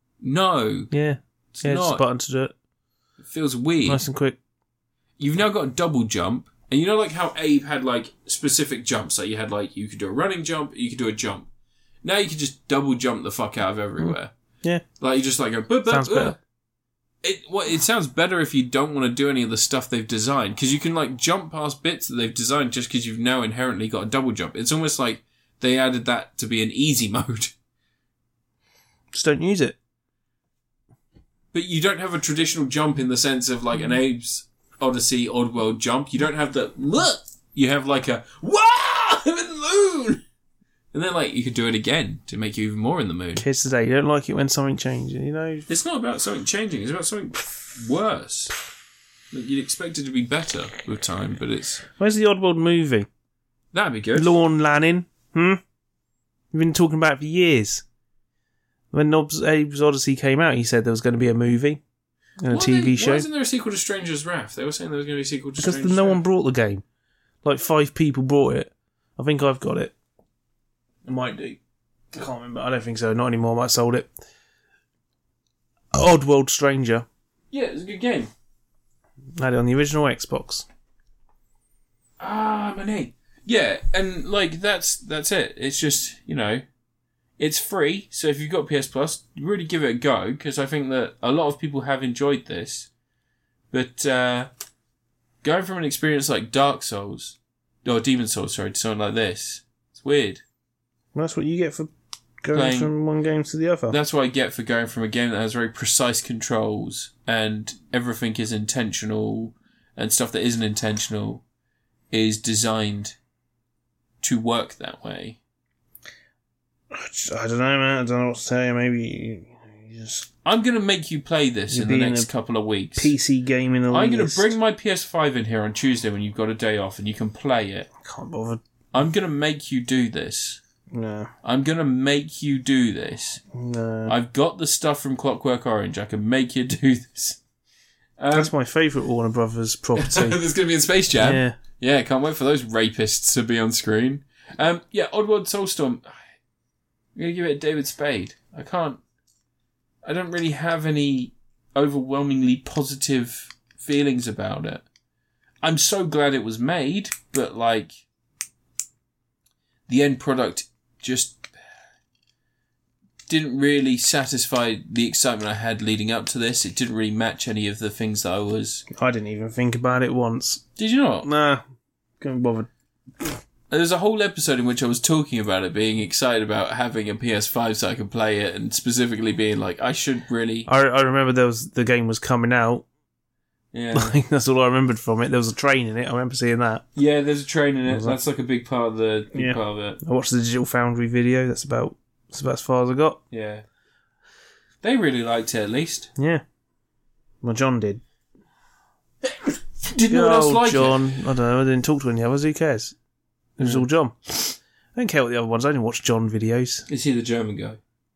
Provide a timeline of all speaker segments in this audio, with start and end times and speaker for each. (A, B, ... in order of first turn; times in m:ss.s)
0:00.2-0:00.9 A
0:00.9-0:02.5 B
0:01.5-0:02.0 A
0:03.2-0:04.0 A
0:03.9-0:04.4 B
0:05.2-0:11.5 A
0:12.0-0:14.3 A
0:14.0-0:14.8 B
0:15.0-0:16.4 A
0:15.9-0:16.4 B
0:17.2-0:27.5 A
0:29.1-0:29.8 B
0:31.5-0:40.2 A
0:40.9-0:43.4 A
0:43.4-0:45.7 B
0:45.7-0:48.5 A
0:49.3-0:51.8 A
0:51.9-0:53.1 B
0:53.7-0:54.4 A
0:54.2-0:55.6 B
0:56.5-0:57.8 B
0:58.9-1:01.8 B
1:02.4-1:03.2 B
1:02.5-1:06.2 A
1:05.6-1:06.8 B
1:07.4-1:09.9 B
1:11.0-1:11.6 B
1:12.1-1:14.1 B
1:15.9-1:17.0 B
1:17.5-1:18.3 A
1:19.4-1:20.6 B
1:22.2-1:26.6 A
1:27.4-1:32.9 A
1:33.7-1:34.5 A
1:35.4-1:40.4 A
1:41.1-1:41.9 B
1:42.4-1:43.9 B
1:42.5-1:42.9 A
1:43.9-1:51.4 A
1:52.1-1:53.2 A
1:54.2-1:55.4 A
1:56.9-2:00.3 B
2:00.4-2:03.1 A
2:01.7-2:02.3 B
2:03.0-2:04.5 B
2:03.9-2:07.9 A
2:08.0-2:08.6 B
2:08.9-2:10.6 A
2:10.9-2:11.3 B
2:11.4-2:13.4 A
2:13.5-2:14.1 B
2:14.1-2:17.4 A
2:18.2-2:18.5 A
2:18.3-2:20.4 B
2:20.0-2:26.2 A
2:21.2-2:21.6 B
2:27.2-2:29.0 A
2:30.0-2:34.8 A
2:35.6-2:37.9 A
2:39.9-2:41.5 A
2:43.3-2:48.8 A
2:48.9-2:50.6 B
2:50.8-2:51.3 A
2:51.2-2:51.6 B
2:52.2-2:52.7 B
2:53.7-3:00.7 A
3:00.7-3:02.8 B
3:03.7-3:04.1 A
3:03.9-3:06.8 B
3:06.9-3:10.0 A
3:07.9-3:08.2 B
3:09.3-3:13.2 B
3:13.3-3:13.6 A
3:14.8-3:16.1 A
3:16.2-3:16.4 B
3:17.4-3:18.0 B
3:19.2-3:21.0 A
3:20.1-3:22.9 B
3:23.6-3:26.8 B
3:26.9-3:27.8 A